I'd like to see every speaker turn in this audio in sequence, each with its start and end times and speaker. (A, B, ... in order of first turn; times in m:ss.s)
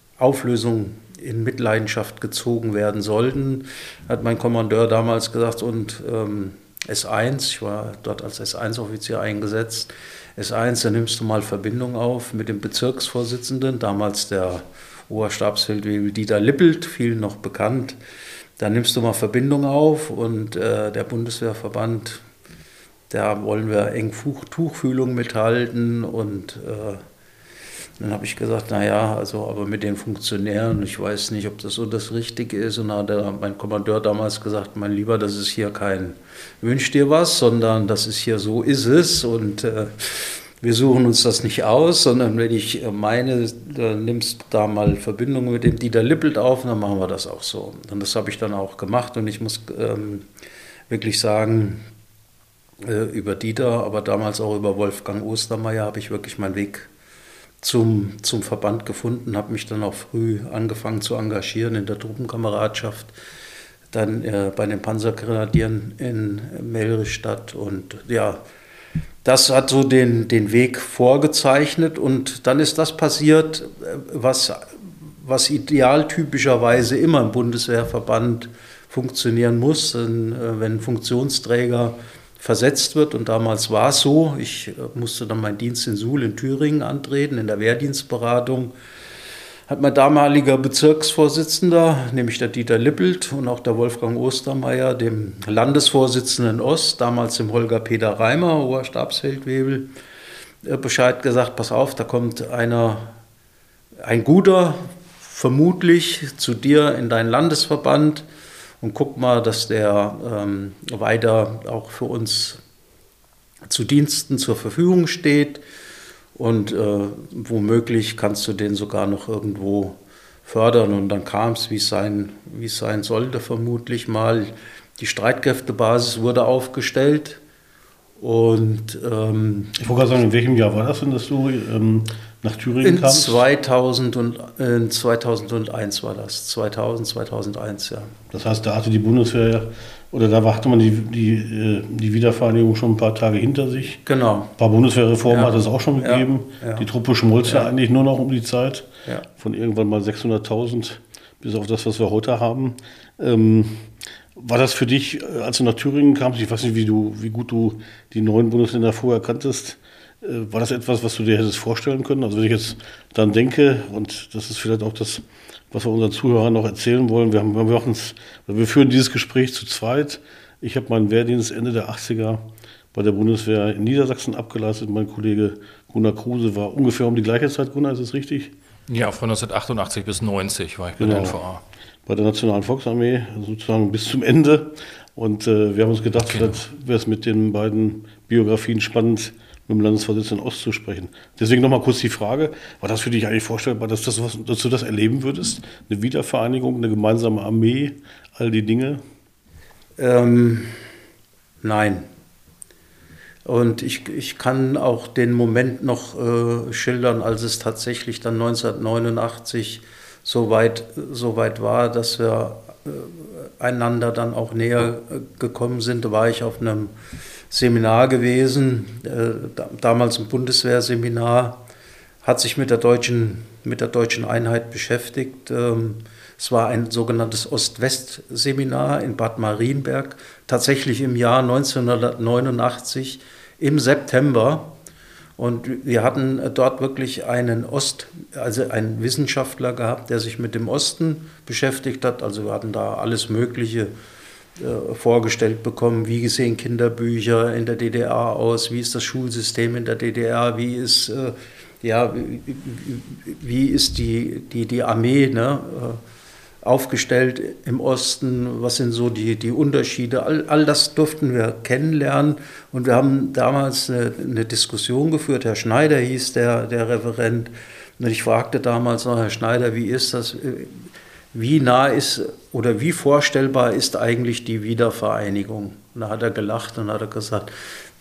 0:00.2-0:18.0 A
0:18.6-0:22.2 A
0:23.1-0:27.0 A
0:28.0-0:50.2 A
0:50.9-0:51.8 A
0:52.8-0:56.9 A
0:57.6-1:03.1 A
1:03.9-1:08.4 A
1:09.2-1:28.7 A
1:29.7-1:39.9 A
1:40.6-1:43.1 A
1:44.0-1:48.2 A
1:48.8-1:52.6 A
1:53.7-1:55.6 A
1:56.4-2:07.4 A
2:08.2-2:09.8 A
2:09.8-2:13.4 B
2:12.8-2:18.1 A
2:18.3-2:24.0 B
2:24.0-2:24.5 A
2:24.6-2:58.5 B
2:25.3-2:26.9 A
2:27.4-2:27.7 A
2:58.9-3:01.6 C
3:01.0-3:01.4 B
3:02.0-3:19.0 B
3:06.2-3:06.6 C
3:20.0-3:20.8 A
3:21.6-3:22.1 A
3:23.4-3:36.9 A
3:37.5-3:41.6 A
3:42.2-3:54.7 A
3:55.4-4:03.9 A
4:04.6-4:16.0 A
4:16.6-4:37.5 A